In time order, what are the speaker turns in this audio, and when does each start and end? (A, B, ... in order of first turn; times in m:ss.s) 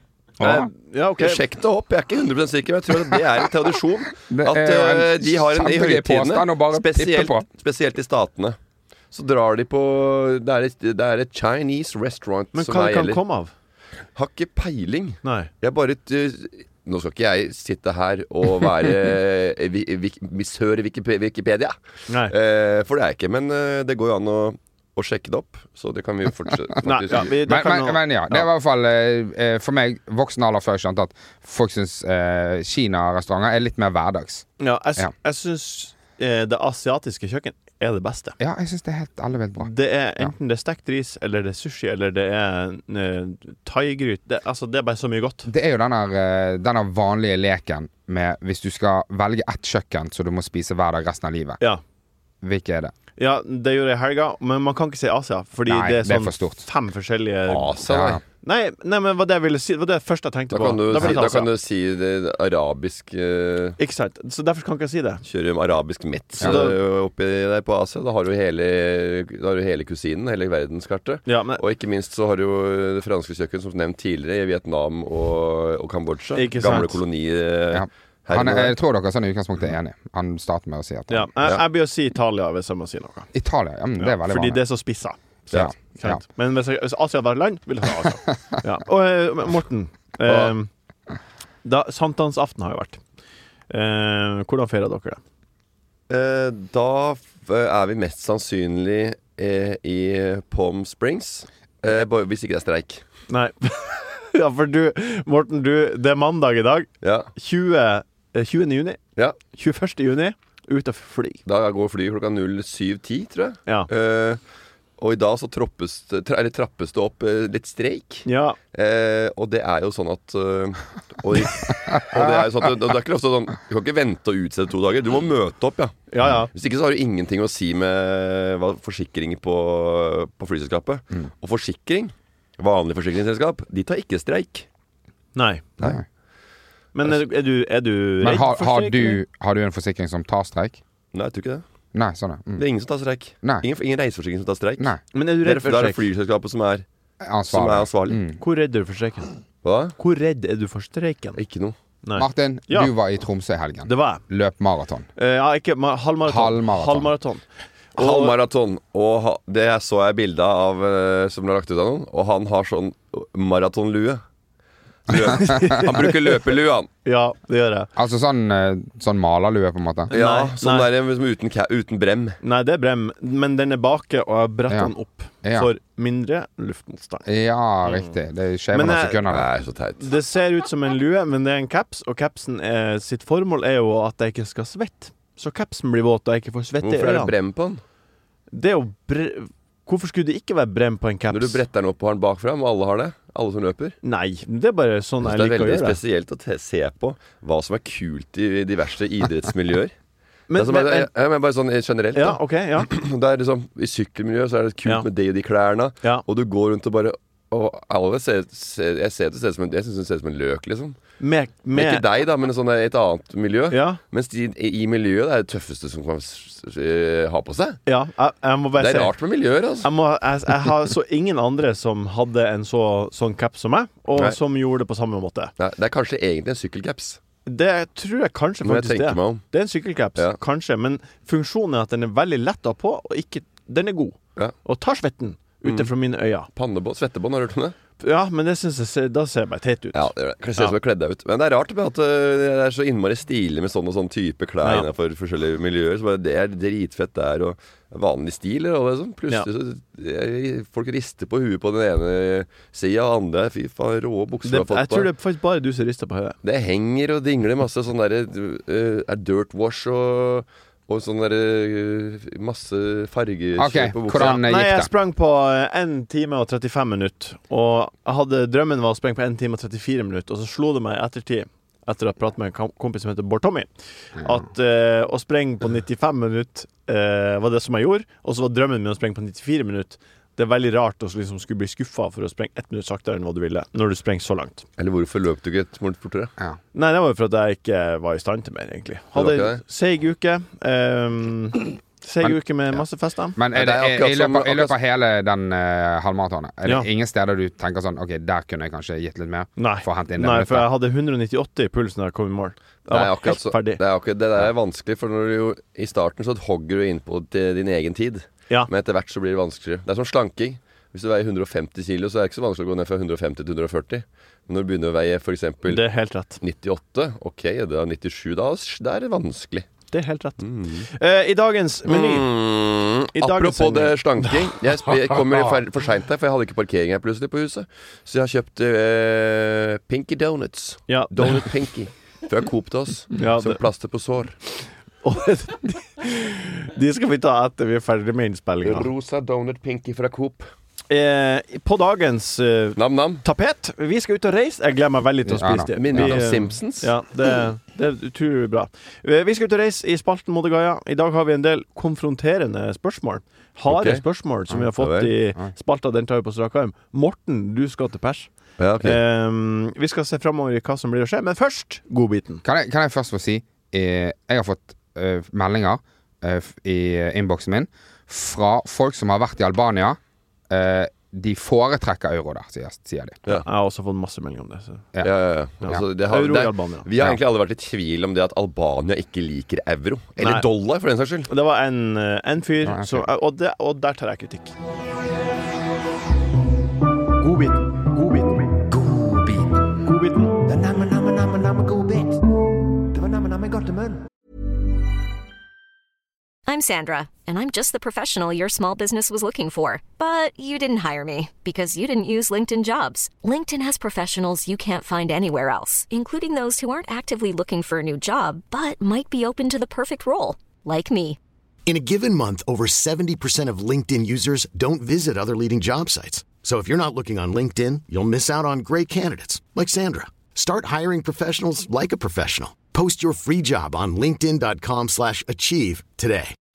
0:00.4-0:00.7 A
0:00.4-0:01.4 B
0:01.2-0:08.6 C
0:04.3-0:07.4 A
0:09.1-0:13.2 C
0:12.5-0:13.5 B
0:14.1-0:21.8 C
0:15.2-0:15.5 B
0:22.1-0:22.3 B
0:22.3-0:27.3 C
0:26.8-0:28.4 B
0:27.4-0:34.4 A
0:34.6-0:38.4 B
0:38.4-0:40.3 A
0:39.6-0:45.5 B
0:45.5-0:51.6 A
0:52.4-0:52.9 A
0:53.2-0:57.8 B
0:55.7-0:56.6 A
0:57.5-0:58.2 C
0:57.9-0:58.2 A
0:58.4-1:01.5 B
1:00.5-1:03.8 C
1:03.8-1:05.2 B
1:05.2-1:18.8 C
1:06.4-1:06.8 B
1:11.2-1:11.6 B
1:16.3-1:16.9 B
1:17.7-1:21.3 A
1:21.1-1:23.3 B
1:23.3-1:24.6 A
1:24.0-1:25.2 B
1:25.5-1:26.2 A
1:25.8-1:30.7 B
1:30.3-1:30.5 C
1:31.6-1:33.0 B
1:33.7-1:35.2 B
1:36.1-1:43.0 C
1:43.3-1:49.0 B
1:47.0-1:47.3 C
1:49.5-1:51.4 B
1:51.4-1:54.4 C
1:55.0-2:14.6 C
1:58.2-1:58.6 B
2:02.1-2:02.4 A
2:06.1-2:06.5 B
2:15.3-2:15.7 B
2:16.9-2:19.2 B
2:18.2-2:20.8 A
2:21.1-2:21.6 C
2:21.9-2:22.6 A
2:22.6-2:24.9 C
2:25.1-2:26.0 B
2:25.4-2:26.8 C
2:27.2-2:28.4 A
2:27.5-2:28.2 C
2:28.4-2:29.3 B
2:29.6-2:30.0 C
2:30.0-2:31.4 B
2:31.4-2:31.7 C
2:32.0-2:32.9 B
2:32.2-2:35.1 A
2:33.8-2:34.2 B
2:35.2-2:37.4 B
2:36.2-2:37.1 A
2:37.9-2:38.3 B
2:38.0-2:44.2 C
2:45.1-2:46.9 C
2:45.2-2:46.2 B
2:47.0-2:47.9 B
2:48.0-2:50.1 A
2:50.1-2:50.9 B
2:50.1-2:52.4 C
2:52.4-2:57.3 B
2:55.4-2:55.7 A
2:57.2-2:59.5 A
2:58.7-2:59.2 B
2:59.3-3:00.0 C
3:00.0-3:07.3 B
3:06.8-3:07.8 C
3:08.5-3:11.6 B
3:11.3-3:14.0 C
3:14.0-3:16.0 B
3:15.2-3:19.9 C
3:20.5-3:21.1 B
3:20.6-3:31.0 C
3:22.1-3:22.9 B
3:31.2-3:32.0 B
3:31.7-3:37.8 C
3:33.7-3:34.0 B
3:37.8-3:39.1 B
3:38.8-3:39.9 C
3:39.8-3:45.5 B
3:45.6-3:47.2 C
3:47.4-3:56.5 B
3:48.6-3:49.4 C
3:56.5-3:57.8 C
3:58.0-4:00.7 B
3:59.9-4:15.1 C
4:14.4-4:16.4 B
4:16.4-4:24.4 C
4:23.6-4:24.9 A
4:24.2-4:44.6 B
4:44.8-4:46.3 C
4:46.7-4:53.4 B
4:49.1-4:49.6 C
4:53.4-5:00.7 A
4:53.5-4:54.8 C
4:59.6-5:03.8 B
5:02.9-5:15.8 C
5:15.6-5:16.4 B
5:16.4-5:19.7 C
5:19.9-5:22.3 B
5:20.4-5:20.9 C
5:21.9-5:34.4 C
5:23.1-5:24.0 B
5:30.9-5:31.5 B
5:33.2-5:33.6 B
5:35.0-5:38.9 B
5:38.6-5:40.5 C
5:40.9-5:58.3 B
5:42.8-5:43.2 C
5:45.3-5:46.2 A
5:45.8-5:46.9 C
5:53.7-5:54.0 C
5:54.8-5:55.1 C
5:58.6-5:59.0 C
5:58.8-6:02.4 B
6:02.4-6:10.0 A
6:10.5-6:13.2 A
6:13.4-6:14.8 B
6:15.0-6:21.3 C
6:15.6-6:16.9 B
6:20.2-6:20.4 B
6:21.3-6:24.5 B
6:22.6-6:23.0 A
6:27.2-6:28.4 B
6:28.7-6:29.6 C
6:29.8-6:30.4 B
6:30.4-6:32.2 C
6:32.9-6:34.0 C
6:36.5-6:51.2 D
6:51.7-7:06.3 E